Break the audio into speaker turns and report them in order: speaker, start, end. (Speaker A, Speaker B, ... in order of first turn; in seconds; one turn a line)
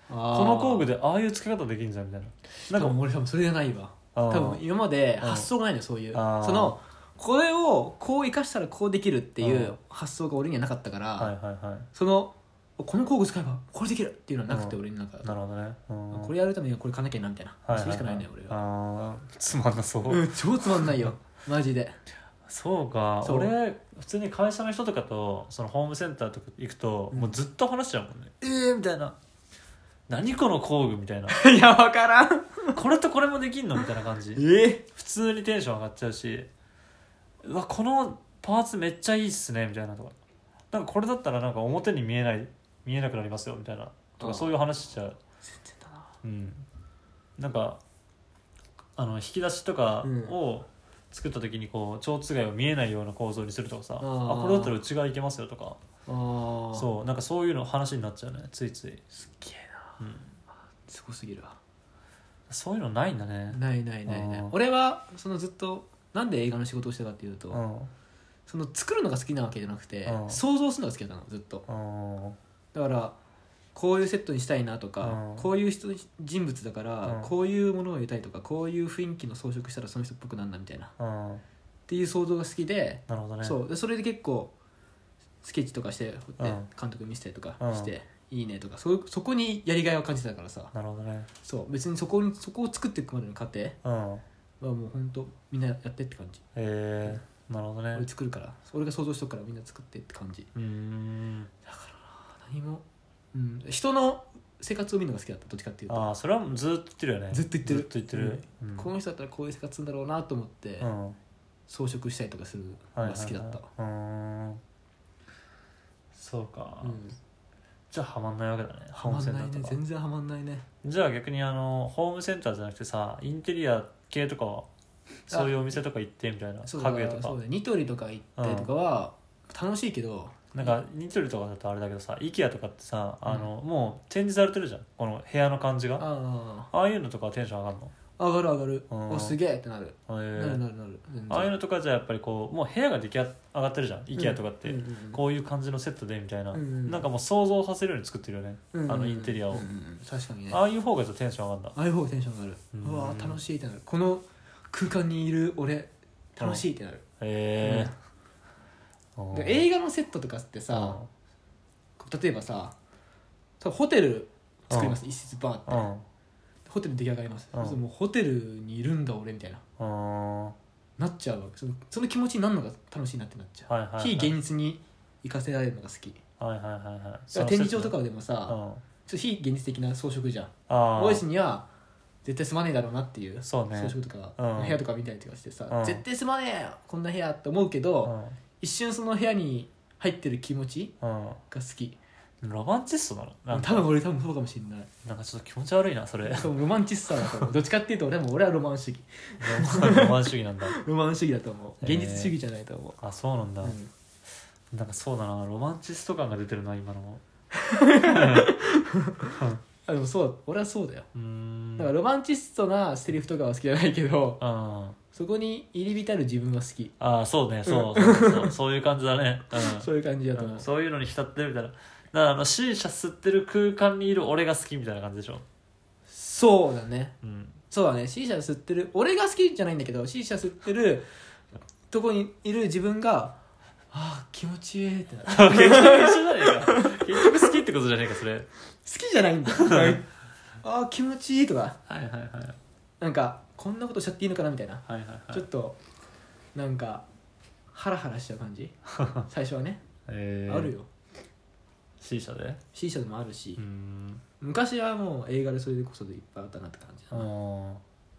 Speaker A: 0.1-0.9
Speaker B: 0.3-3.0
Speaker A: 2.6-11.3
Speaker B: 4.2-4.6
Speaker B: 5.2-5.5
Speaker B: 6.1-6.8
Speaker B: 9.4-9.8
Speaker B: 11.2-11.9
Speaker A: 11.9-15.3
Speaker B: 14.5-16.3
Speaker A: 16.1-18.6
Speaker B: 17.6-21.1
Speaker A: 20.1-22.0
Speaker B: 22.5-29.2
Speaker A: 23.2-23.5
Speaker A: 27.1-27.4
Speaker B: 30.1-31.4
Speaker A: 31.3-32.8
Speaker B: 32.7-36.5
Speaker A: 34.4-34.9
Speaker B: 37.4-40.2
Speaker B: 40.7-45.2
Speaker A: 44.2-44.5
Speaker A: 45.4-46.1
Speaker B: 46.2-46.7
Speaker B: 47.4-47.8
Speaker B: 49.0-55.8
Speaker A: 50.0-50.4
Speaker A: 54.0-54.8
Speaker A: 56.1-56.9
Speaker B: 56.7-59.0
Speaker A: 59.1-60.0
Speaker B: 60.0-60.3
Speaker A: 60.9-61.6
Speaker B: 62.5-64.5
Speaker A: 63.5-67.6
Speaker B: 67.5-67.9
Speaker A: 68.5-71.7
Speaker B: 70.1-70.4
Speaker B: 71.7-72.4
Speaker A: 72.7-73.2
Speaker A: 73.7-80.9
Speaker B: 75.0-75.5
Speaker B: 77.0-77.3
Speaker B: 81.0-81.4
Speaker A: 81.9-84.5
Speaker B: 83.1-83.6
Speaker A: 85.4-90.7
Speaker B: 86.4-86.7
Speaker B: 87.6-87.9
Speaker B: 90.7-91.3
Speaker A: 91.4-93.8
Speaker B: 93.8-94.2
Speaker A: 94.6-96.4
Speaker B: 96.5-98.1
Speaker A: 98.0-100.5
Speaker B: 100.5-101.5
Speaker A: 101.6-106.1
Speaker B: 105.9-108.9
Speaker A: 107.3-110.9
Speaker B: 110.8-111.2
Speaker A: 111.7-113.7
Speaker B: 113.0-114.6
Speaker B: 116.1-117.0
Speaker A: 116.8-117.2
Speaker B: 117.9-119.8
Speaker A: 118.9-120.7
Speaker B: 120.8-124.7
Speaker B: 125.3-127.4
Speaker A: 125.3-125.6
Speaker A: 126.6-130.8
Speaker B: 128.4-128.7
Speaker B: 130.5-136.1
Speaker A: 136.0-136.7
Speaker B: 136.7-137.9
Speaker A: 138.2-141.5
Speaker B: 138.9-139.4
Speaker B: 140.1-140.6
Speaker B: 141.3-149.7
Speaker A: 144.2-145.2
Speaker A: 146.5-147.0
Speaker A: 148.7-150.6
Speaker B: 150.5-151.8
Speaker A: 151.8-157.0
Speaker B: 152.7-153.4
Speaker B: 157.2-157.9
Speaker A: 157.6-157.9
Speaker B: 159.2-159.7
Speaker A: 159.3-161.0
Speaker B: 160.7-161.1
Speaker A: 162.0-162.8
Speaker A: 163.6-165.9
Speaker B: 164.7-165.0
Speaker B: 165.7-166.1
Speaker A: 166.7-169.6
Speaker B: 167.5-167.8
Speaker B: 169.8-170.6
Speaker A: 171.0-176.2
Speaker B: 173.7-174.4
Speaker B: 176.4-177.9
Speaker A: 177.3-181.7
Speaker B: 178.5-178.8
Speaker B: 180.7-181.2
Speaker A: 182.2-190.9
Speaker B: 183.4-184.8
Speaker B: 185.7-186.0
Speaker B: 188.0-188.4
Speaker B: 191.0-191.4
Speaker A: 191.5-192.0
Speaker B: 192.4-193.9
Speaker A: 193.5-194.9
Speaker B: 195.0-196.5
Speaker A: 196.2-203.0
Speaker B: 197.2-197.5
Speaker B: 199.4-200.8
Speaker B: 201.8-202.3
Speaker B: 203.0-203.8
Speaker A: 203.6-203.9
Speaker B: 204.7-207.2
Speaker A: 207.5-211.1
Speaker B: 208.0-208.5
Speaker B: 209.4-209.6
Speaker B: 211.1-211.9
Speaker A: 211.8-214.4
Speaker B: 214.4-215.0
Speaker A: 215.1-216.9
Speaker B: 217.0-225.4
Speaker A: 217.7-218.6
Speaker A: 219.5-220.7
Speaker A: 226.1-227.2
Speaker B: 227.2-227.6
Speaker A: 227.7-231.1
Speaker A: 231.9-233.4
Speaker A: 233.9-237.5
Speaker B: 235.3-238.5
Speaker A: 238.8-240.1
Speaker B: 239.6-240.0
Speaker A: 240.6-241.8
Speaker B: 241.9-242.6
Speaker A: 243.0-245.8
Speaker B: 244.9-245.5
Speaker A: 246.6-247.1
Speaker A: 247.7-249.8
Speaker B: 250.1-250.7
Speaker A: 250.5-250.9
Speaker B: 252.0-252.6
Speaker A: 252.7-253.6
Speaker B: 253.6-254.2
Speaker A: 254.4-257.3
Speaker B: 257.1-257.8